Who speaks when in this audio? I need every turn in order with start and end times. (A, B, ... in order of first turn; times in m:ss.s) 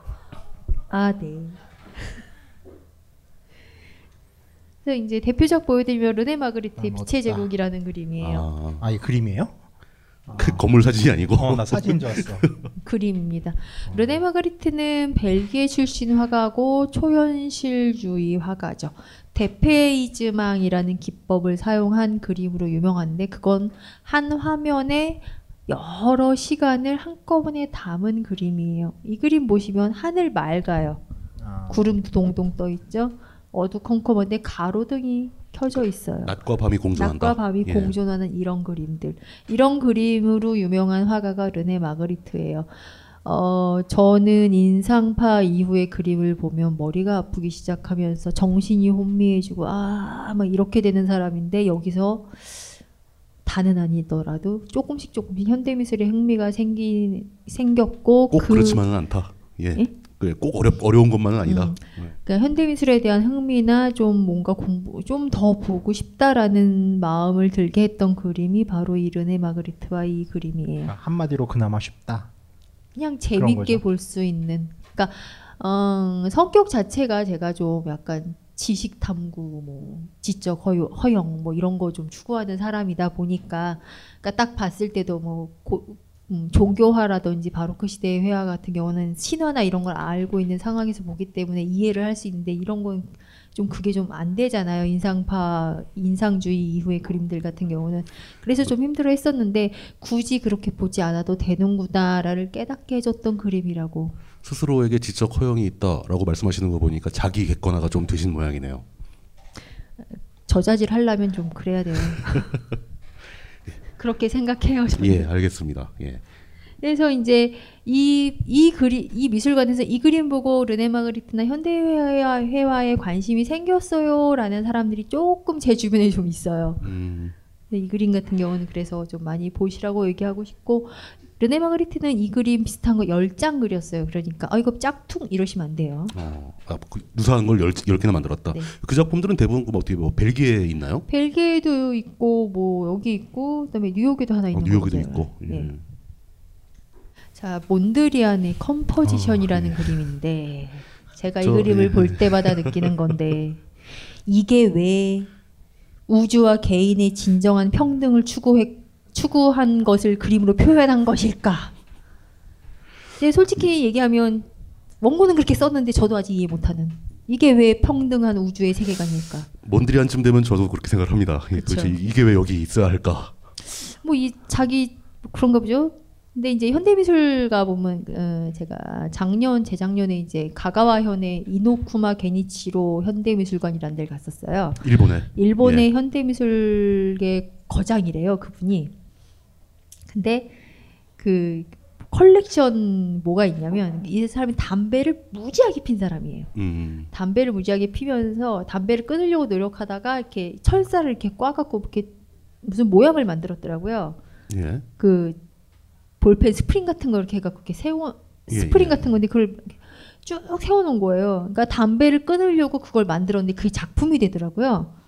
0:00.9-0:01.6 A
0:04.8-0:08.5 A
0:06.8-0:07.5 B
0:08.2-0:08.8 C
0:08.8-0:09.6 B
0:10.3-0:10.7 B
0:10.4-0:12.5 C
0:11.3-0:12.5 B
0:12.8-0:31.0 A
0:13.9-0:14.2 B
0:31.4-0:32.0 B
0:31.7-0:36.4 A
0:36.2-0:38.0 C
0:36.9-0:52.7 A
0:53.5-0:58.8 A
0:58.3-1:02.2 C
1:01.4-1:10.9 A
1:10.9-1:12.3 B
1:13.0-1:44.2 A
1:13.4-1:13.8 B
1:44.4-1:48.8 C
1:50.1-1:52.5 A
1:54.0-1:55.3 A
1:55.0-1:56.2 C
1:56.8-2:06.8 A
2:06.8-2:07.4 C
2:07.7-2:16.1 A
2:16.1-2:21.1 C
2:21.1-2:25.7 A
2:24.5-2:25.8 C
2:27.4-2:33.6 A
2:29.0-2:30.1 C
2:31.4-2:32.9 C
2:34.2-2:35.3 A
2:36.1-2:41.7 A
2:43.2-2:44.5 A
2:45.0-2:49.5 A
2:49.6-2:53.3 C
2:51.5-2:52.1 A
2:53.7-3:08.9 A
3:04.8-3:05.9 C
3:10.1-3:10.5 A
3:11.2-3:16.5 A
3:16.6-3:17.1 C
3:17.1-3:22.1 A
3:22.6-3:24.2 A
3:24.5-3:24.8 C
3:25.0-3:25.4 A
3:26.2-3:34.9 A
3:28.5-3:29.1 C